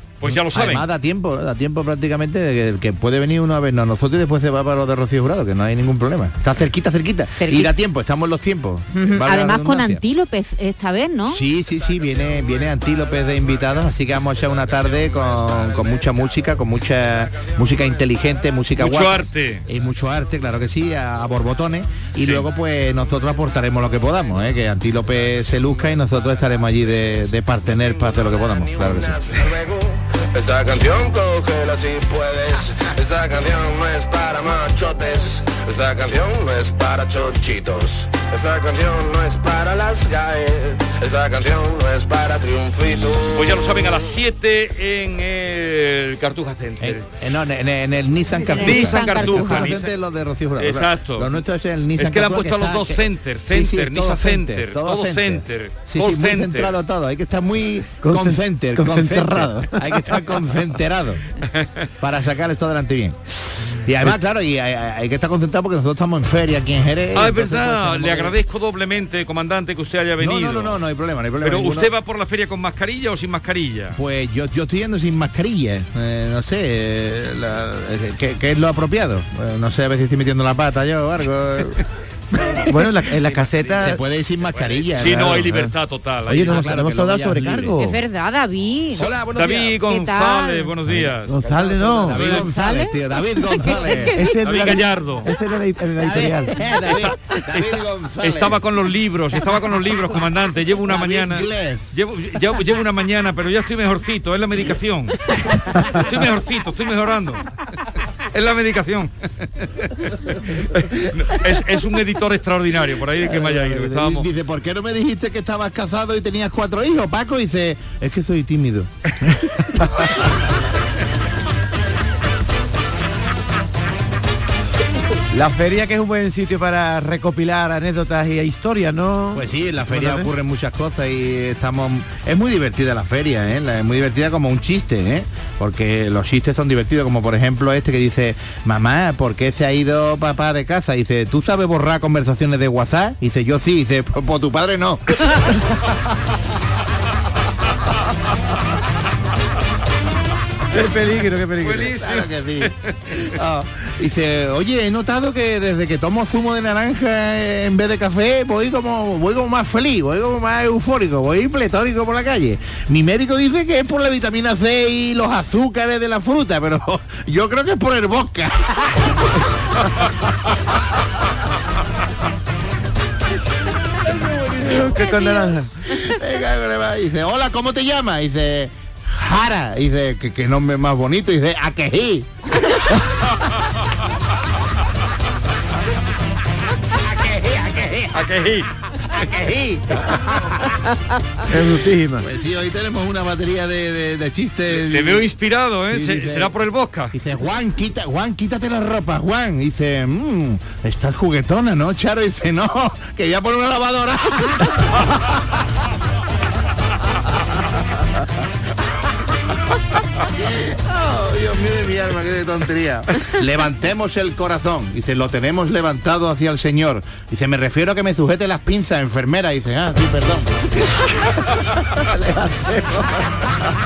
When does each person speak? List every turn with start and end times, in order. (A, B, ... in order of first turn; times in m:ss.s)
0:00.2-0:00.9 A
0:00.2-0:10.0 B
0:07.4-0:07.7 C
0:08.9-0:11.5 C
0:11.3-0:29.4 B
0:11.6-0:16.5 D
0:17.3-0:18.0 D
0:18.8-0:19.6 A
0:22.2-0:22.4 A
0:27.8-0:43.7 D
0:43.3-0:47.1 A
0:46.8-1:01.2 B
0:48.4-0:49.8 C
0:48.5-0:49.9 A
0:50.6-0:51.4 A
0:52.0-0:56.8 A
0:58.0-1:00.4 E
1:02.0-1:08.3 B
1:07.2-1:10.8 A
1:10.2-1:11.9 B
1:11.4-1:14.0 A
1:14.0-1:21.8 B
1:22.3-1:22.9 B
1:22.7-1:24.0 E
1:23.1-1:24.0 A
1:23.8-1:25.5 B
1:24.6-1:25.7 E
1:24.9-1:27.7 A
1:26.3-1:28.0 E
1:26.4-1:27.7 B
1:27.8-1:29.1 C
1:29.0-1:29.6 E
1:29.2-1:32.5 A
1:29.8-1:30.7 C
1:30.9-1:32.4 E
1:31.9-1:34.2 B
1:32.3-1:34.0 C
1:34.1-1:36.6 E
1:34.4-1:35.3 A
1:36.0-1:38.6 B
1:36.8-1:45.3 A
1:40.8-1:41.9 B
1:45.4-1:46.1 B
1:45.8-1:47.5 A
1:48.3-1:54.3 A
1:53.2-1:58.9 B
2:05.3-2:10.3 E
2:09.3-2:25.4 B
2:30.7-2:31.9 E
2:30.7-2:33.3 A
2:31.8-2:49.4 B
2:54.2-3:02.8 B
2:54.5-2:55.7 A
3:06.9-3:08.3 B
3:08.1-3:08.7 A
3:09.0-3:10.8 B
3:11.5-3:12.3 E
3:11.6-3:15.3 B
3:14.7-3:17.2 A
3:15.9-3:16.5 B
3:17.1-3:25.2 B
3:30.4-3:43.7 B